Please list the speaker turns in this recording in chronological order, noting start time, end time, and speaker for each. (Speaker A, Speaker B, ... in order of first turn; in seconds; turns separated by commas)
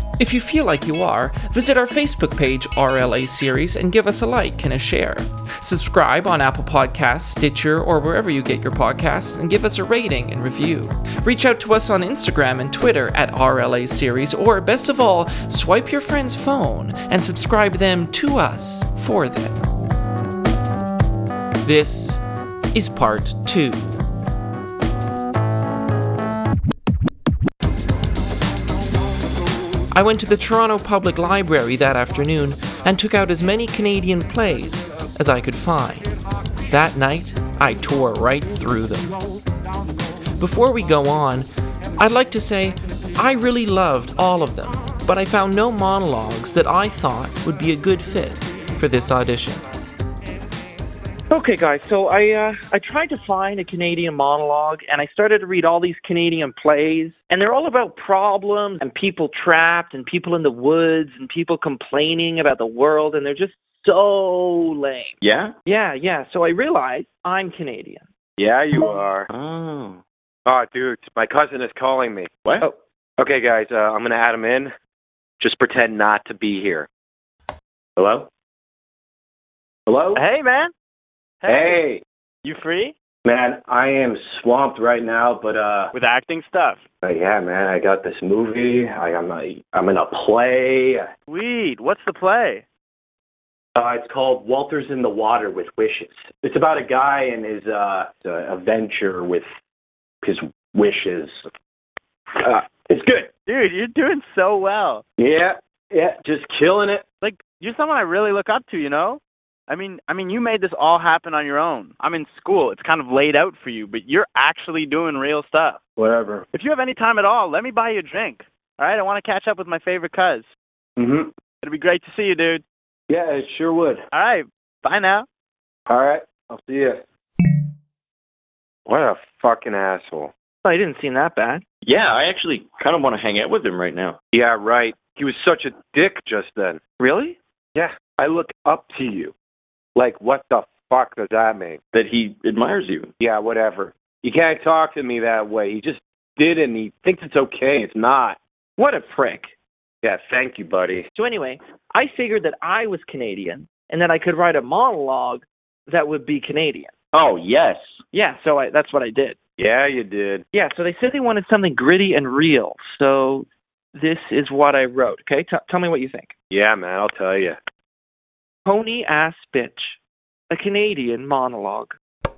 Speaker A: 0.2-19.7, Speaker A: 21.6-22.2, Speaker A: 22.7-24.0, Speaker A: 29.9-36.1, Speaker A: 36.7-39.2, Speaker A: 40.4-49.7, Speaker B: 51.3-68.0, Speaker C: 65.2-65.5, Speaker D: 68.4-69.3, Speaker C: 69.3-70.0, Speaker D: 70.5-72.3, Speaker D: 73.2-74.7, Speaker D: 75.4-76.9, Speaker D: 78.0-78.3, Speaker D: 79.9-80.2, Speaker E: 80.1-80.7, Speaker E: 81.4-81.8, Speaker D: 81.5-82.0, Speaker E: 82.4-82.9, Speaker D: 83.2-85.9, Speaker E: 85.9-86.8, Speaker D: 87.0-91.1, Speaker E: 91.3-92.6, Speaker D: 93.8-99.5, Speaker D: 100.2-101.4, Speaker D: 102.4-103.3, Speaker E: 103.5-105.0, Speaker D: 105.2-107.0, Speaker E: 107.2-115.8, Speaker D: 116.0-116.5, Speaker E: 116.5-120.5, Speaker D: 121.0-121.3, Speaker E: 121.6-122.6, Speaker D: 123.1-124.0, Speaker E: 124.1-125.3, Speaker D: 125.9-127.0, Speaker D: 128.9-130.3, Speaker B: 130.6-131.6, Speaker C: 131.8-134.2, Speaker D: 134.3-136.8, Speaker B: 137.0-137.4, Speaker D: 137.8-139.3, Speaker D: 140.0-141.8, Speaker C: 141.9-143.1, Speaker D: 143.2-148.4, Speaker B: 148.8-149.5, Speaker D: 150.0-151.1, Speaker B: 151.2-156.9, Speaker C: 157.1-158.0, Speaker B: 158.1-159.4, Speaker D: 159.6-160.4, Speaker B: 160.5-166.3, Speaker D: 166.5-167.6, Speaker B: 168.7-170.0, Speaker B: 170.5-172.0